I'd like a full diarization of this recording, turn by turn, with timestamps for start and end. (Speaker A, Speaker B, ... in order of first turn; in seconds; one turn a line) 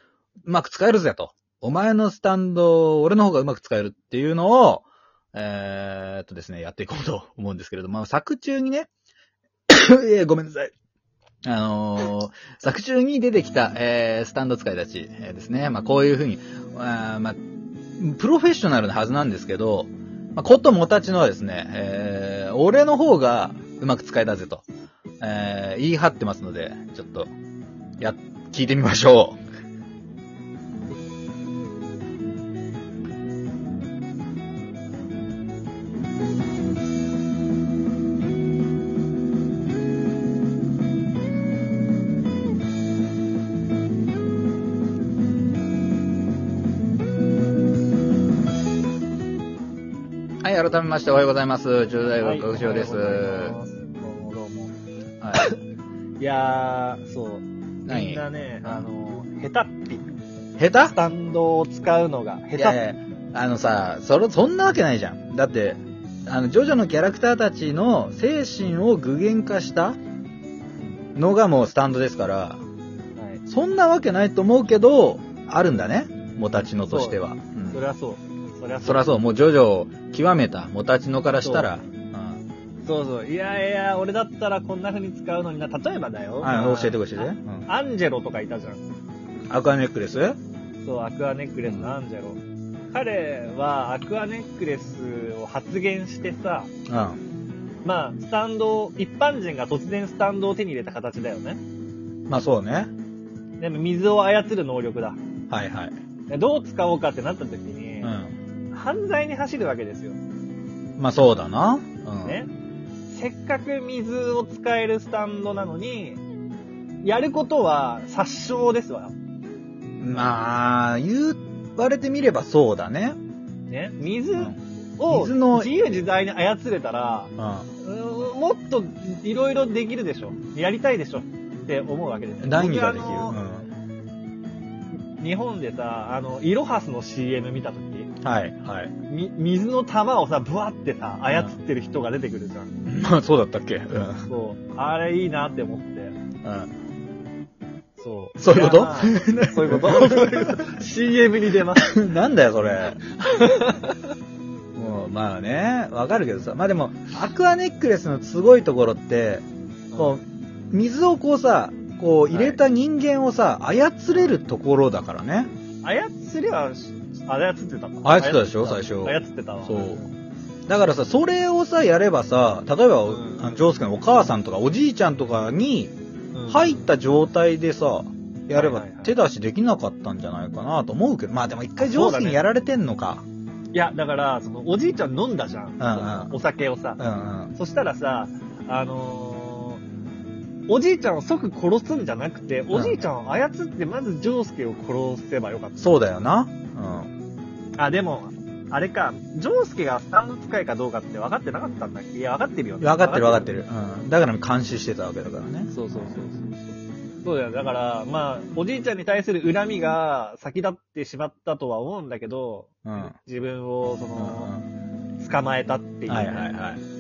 Speaker A: 0.5-8.9
Speaker A: 9.7-10.7
Speaker A: 11.4-17.4
Speaker A: 18.0-24.6
Speaker A: 25.2-27.3
Speaker A: 28.0-29.4
Speaker A: 50.4-53.6
Speaker B: 52.2-54.7
Speaker A: 55.2-55.5
Speaker B: 56.2-60.0
Speaker A: 57.9-58.8
Speaker A: 60.6-61.0
Speaker B: 60.9-62.8
Speaker A: 62.6-70.0
Speaker A: 71.2-72.6
Speaker B: 73.2-73.4
Speaker A: 73.5-77.8
Speaker B: 76.8-79.1
Speaker A: 78.8-82.4
Speaker B: 81.4-81.7
Speaker B: 82.8-88.9
Speaker A: 86.4-87.7
Speaker A: 89.5-90.4
Speaker B: 90.8-92.4
Speaker A: 91.7-91.9
Speaker B: 92.9-96.7
Speaker A: 96.9-97.2
Speaker B: 97.8-101.6
Speaker A: 102.3-102.9
Speaker B: 103.6-105.2
Speaker A: 105.5-106.0
Speaker B: 106.3-108.1
Speaker A: 108.0-108.4
Speaker B: 108.7-110.2
Speaker A: 111.0-112.4
Speaker B: 112.2-112.5
Speaker B: 113.1-116.2
Speaker B: 117.0-119.1
Speaker A: 120.0-123.2
Speaker B: 123.7-133.4
Speaker A: 124.4-125.7
Speaker A: 127.4-127.7
Speaker A: 132.4-133.7
Speaker B: 135.2-138.1
Speaker A: 138.2-138.9
Speaker B: 139.1-142.7
Speaker A: 141.3-141.6
Speaker A: 142.9-144.3
Speaker B: 144.3-146.2
Speaker A: 146.4-146.7
Speaker B: 148.0-152.0
Speaker A: 148.4-150.5
Speaker A: 151.9-153.0
Speaker B: 153.2-154.0
Speaker A: 154.8-159.4
Speaker B: 159.9-160.2
Speaker A: 160.0-165.5
Speaker B: 162.3-162.6
Speaker B: 165.8-170.1
Speaker A: 168.0-170.0
Speaker A: 170.7-175.9
Speaker B: 173.1-173.7
Speaker B: 176.3-176.8
Speaker A: 176.5-183.2
Speaker B: 178.5-179.2
Speaker B: 181.8-182.4
Speaker B: 183.7-187.0
Speaker A: 185.8-186.3
Speaker A: 187.0-187.6
Speaker B: 187.5-189.8
Speaker B: 190.7-195.9
Speaker A: 192.7-193.0
Speaker A: 195.8-197.1
Speaker B: 197.8-203.5
Speaker A: 202.8-206.2
Speaker B: 205.7-214.5
Speaker A: 212.8-213.2
Speaker A: 214.2-214.7
Speaker B: 215.2-216.5
Speaker A: 216.1-216.8